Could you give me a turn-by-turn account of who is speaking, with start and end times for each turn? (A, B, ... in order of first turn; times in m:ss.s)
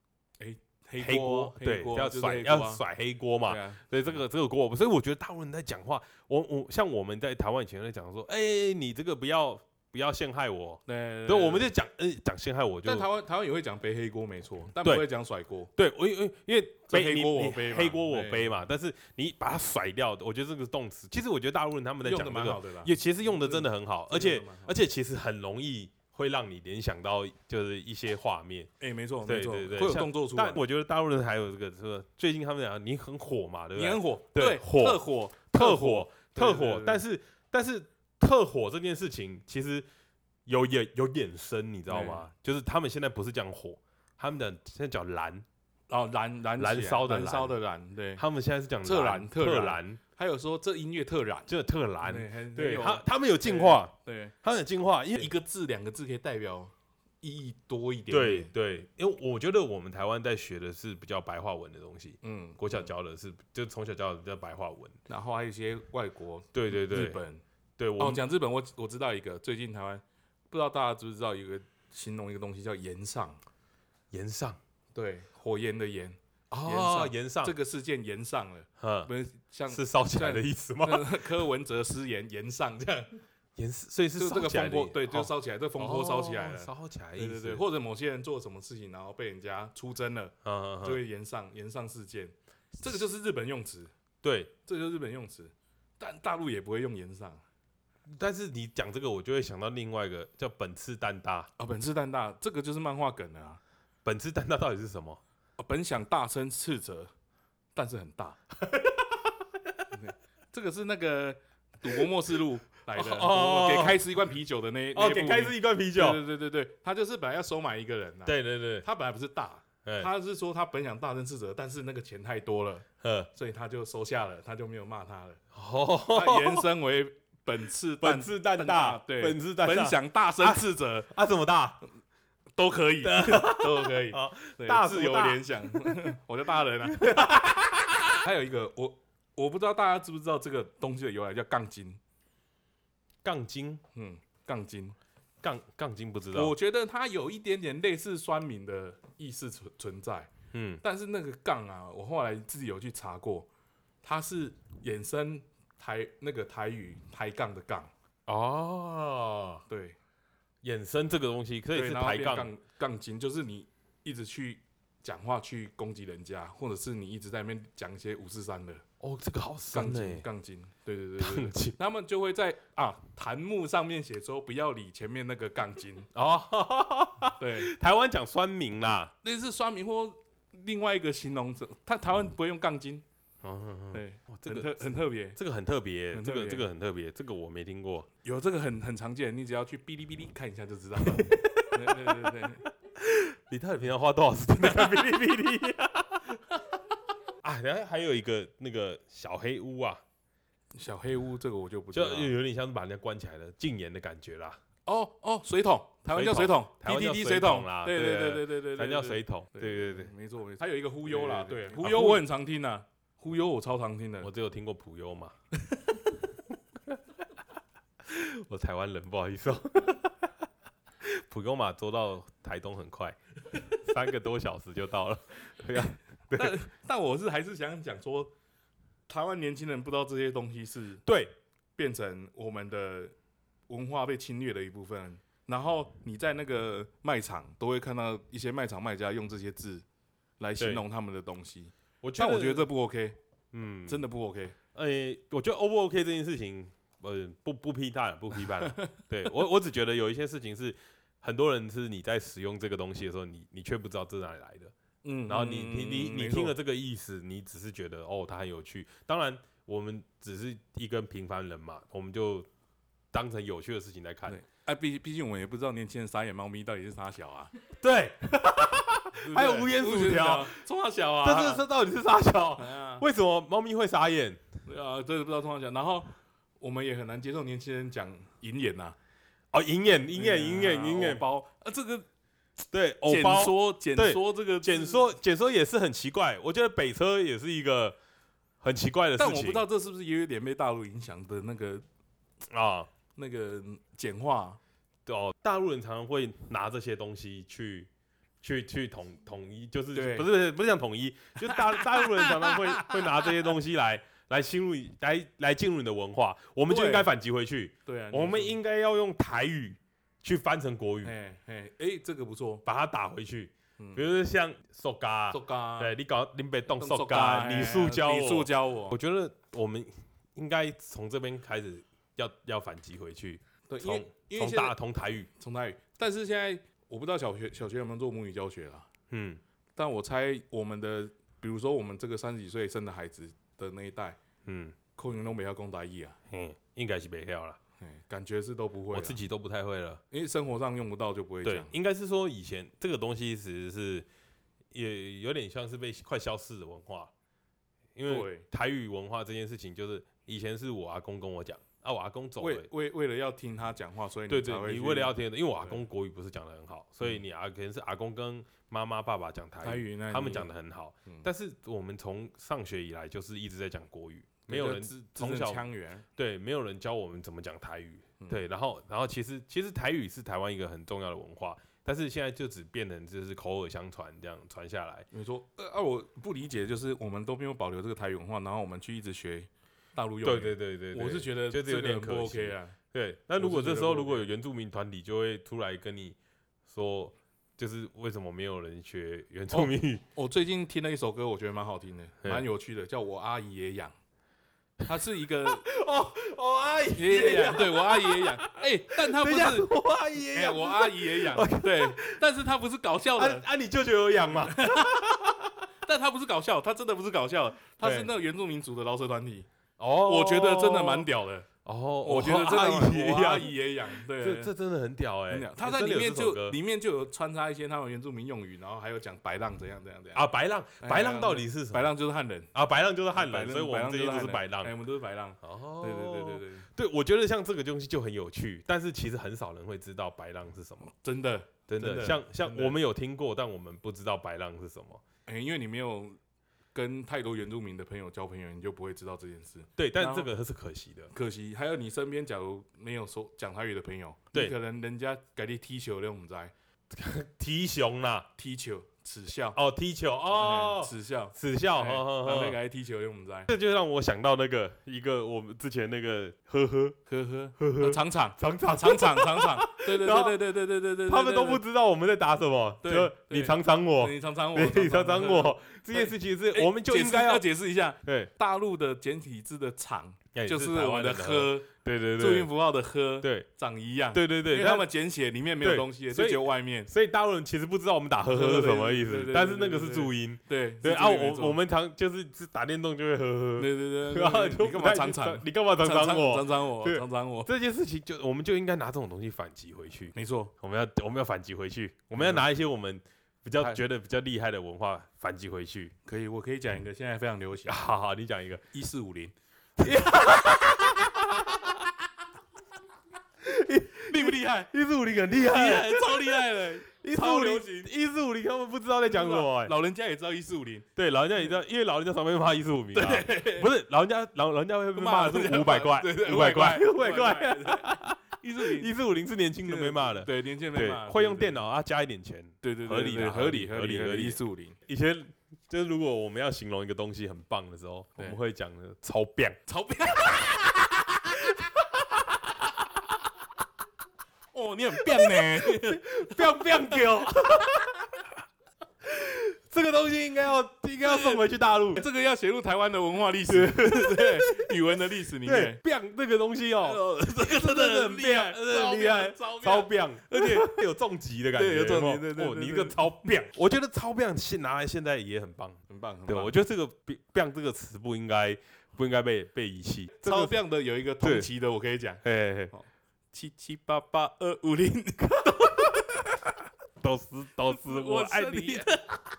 0:00.4-0:02.8 A
0:01.0-0:13.1 B
0:03.4-0:03.8 A
0:10.9-0:11.7 A
0:12.8-0:15.7 A
0:15.7-0:28.7 B
0:16.9-0:18.5 A
0:22.0-0:24.8 A
0:28.8-0:30.6 A
0:29.2-0:39.8 B
0:33.8-0:37.0 A
0:40.4-0:45.4 B
0:41.9-0:42.3 A
0:45.9-0:48.2 A
0:46.6-0:47.6 B
0:48.2-0:50.0 B
0:48.8-0:51.5 A
0:51.5-0:55.3 B
0:52.0-0:54.3 A
0:55.2-0:58.5 A
0:58.1-1:05.0 B
1:02.2-1:02.9 A
1:05.1-1:07.4 A
1:06.5-1:07.2 B
1:07.8-1:08.2 B
1:08.0-1:13.4 A
1:14.1-1:14.6 B
1:14.9-1:23.1 A
1:16.5-1:17.5 B
1:18.8-1:19.1 B
1:19.7-1:21.2 B
1:23.6-1:27.6 B
1:24.2-1:33.9 A
1:30.4-1:31.0 B
1:34.2-1:34.5 B
1:34.6-1:37.4 A
1:38.1-1:41.5 B
1:41.6-1:43.6 A
1:44.0-1:45.2 B
1:45.6-1:47.1 A
1:47.7-1:48.4 A
1:48.6-1:49.4 B
1:49.9-2:05.4 A
1:52.9-1:54.0 B
1:54.9-1:56.2 B
1:58.2-1:58.8 B
1:59.8-2:00.1 B
2:03.0-2:03.3 B
2:05.5-2:06.6 B
2:06.1-2:11.1 A
2:08.0-2:11.8 B
2:12.6-2:17.4 A
2:13.0-2:16.1 B
2:16.9-2:18.1 B
2:18.1-2:22.0 A
2:23.2-2:23.8 B
2:23.9-2:25.0 A
2:25.4-2:26.5 B
2:26.3-2:33.5 A
2:30.5-2:30.8 B
2:34.0-2:37.9 A
2:38.3-2:39.6 B
2:39.7-2:40.0 A
2:40.6-2:42.5 B
2:41.7-2:48.8 A
2:49.0-2:50.2 B
2:49.7-2:56.1 A
2:51.2-2:51.7 B
2:56.1-2:59.1 B
2:57.4-2:57.7 A
2:59.2-3:03.0 A
3:03.4-3:08.1 B
3:03.9-3:05.4 A
3:06.1-3:06.7 A
3:08.2-3:12.6 A
3:11.0-3:16.4 B
3:17.4-3:20.0 B
3:20.7-3:22.3 A
3:21.9-3:24.6 B
3:24.8-3:34.3 A
3:26.1-3:30.1 B
3:31.0-3:32.2 B
3:34.2-3:35.3 B
3:38.0-3:40.2 B
3:41.0-3:46.6 B
3:46.3-3:48.3 A
3:49.1-3:51.0 A
3:51.0-3:51.3 B
3:51.8-3:53.1 A
3:53.7-3:59.8 A
4:00.4-4:03.2 A
4:00.6-4:00.8 B
4:02.0-4:02.7 B
4:03.5-4:04.0 B
4:03.8-4:04.6 A
4:04.7-4:14.7 B
4:08.6-4:08.9 A
4:15.0-4:16.6 A
4:15.3-4:22.5 B
4:23.1-4:24.4 B
4:24.3-4:27.5 A
4:27.8-4:30.6 B
4:29.2-4:31.6 A
4:31.2-4:34.5 B
4:32.6-4:33.0 A
4:34.6-4:39.0 A
4:39.5-4:41.2 B
4:40.1-4:42.1 A
4:42.7-4:48.0 B
4:43.0-4:45.1 A
4:48.6-4:49.6 B
4:49.2-4:51.8 A
4:52.5-4:52.9 B
4:53.1-4:54.6 A
4:55.0-4:57.9 B
4:58.4-5:11.1 B
4:59.9-5:00.3 A
5:01.4-5:03.3 A
5:06.7-5:07.1 A
5:07.8-5:08.6 A
5:11.0-5:12.6 A
5:12.6-5:25.3 B
5:13.8-5:14.0 A
5:15.3-5:15.9 A
5:16.8-5:19.0 A
5:23.7-5:24.8 A
5:25.4-5:28.9 A
5:29.1-5:29.4 B
5:29.8-5:34.2 A
5:34.4-5:34.8 B
5:35.0-5:36.2 A
5:36.3-5:37.6 B
5:37.8-5:39.2 A
5:38.9-5:40.0 B
5:40.1-5:41.7 A
5:41.4-5:44.0 B
5:44.7-5:47.1 B
5:47.9-5:52.7 B
5:48.1-5:48.4 A
5:52.4-5:55.8 A
5:54.3-6:15.1 B
5:59.6-6:00.5 A
6:04.5-6:06.0 A
6:15.1-6:22.8 A
6:20.2-6:30.0 B
6:23.4-6:24.2 A
6:29.5-6:33.9 A
6:34.8-6:35.6 A
6:35.4-6:42.2 B
6:36.9-6:39.7 A
6:40.3-6:43.5 A
6:43.2-6:45.5 B
6:44.4-6:45.0 A
6:45.8-6:49.5 A
6:47.8-6:48.1 B
6:49.8-6:51.1 B
6:50.0-6:51.5 A
6:51.6-6:56.6 B
6:52.0-6:54.5 A
6:55.3-7:00.2 A
7:00.1-7:01.9 B
7:00.8-7:02.5 A
7:02.5-7:04.7 B
7:03.1-7:06.7 A
7:05.4-7:10.9 B
7:10.8-7:12.8 A
7:11.7-7:15.0 B
7:15.3-7:16.2 A
7:16.7-7:20.3 A
7:19.8-7:21.1 B
7:21.1-7:26.5 A
7:26.9-7:28.3 B
7:28.4-7:29.6 A
7:29.5-7:32.6 B
7:30.3-7:33.5 A
7:33.5-7:37.0 B
7:37.1-7:41.6 A
7:37.6-7:47.5 B
7:42.8-7:56.9 A
7:48.0-7:48.3 B
7:50.3-7:52.5 B
7:53.2-7:53.5 B
7:54.1-7:54.9 B
7:55.6-8:15.9 B
7:58.3-8:01.6 A
8:03.6-8:07.5 A
8:10.1-8:10.5 A
8:12.1-8:12.5 A
8:16.0-8:17.8 A
8:17.7-8:18.6 B
8:18.7-8:19.3 A
8:19.8-8:21.8 B
8:23.4-8:29.8 B
8:24.1-8:24.7 A
8:25.4-8:27.9 A
8:29.1-8:30.9 A
8:31.0-8:49.6 B
8:32.9-8:33.7 A
8:35.0-8:38.9 A
8:39.6-8:41.6 A
8:42.6-8:44.8 A
8:49.7-8:50.8 A
8:51.1-8:52.2 B
8:54.5-8:57.0 A
8:55.1-8:58.3 B
8:59.0-9:02.0 B
9:01.0-9:01.4 A
9:01.9-9:05.8 A
9:03.5-9:04.8 B
9:05.4-9:20.6 B
9:06.8-9:10.8 A
9:11.5-9:13.3 A
9:15.9-9:16.5 A
9:20.2-9:26.2 A
9:21.2-9:21.5 B
9:22.2-9:22.7 B
9:27.0-9:29.0 B
9:27.6-9:29.2 A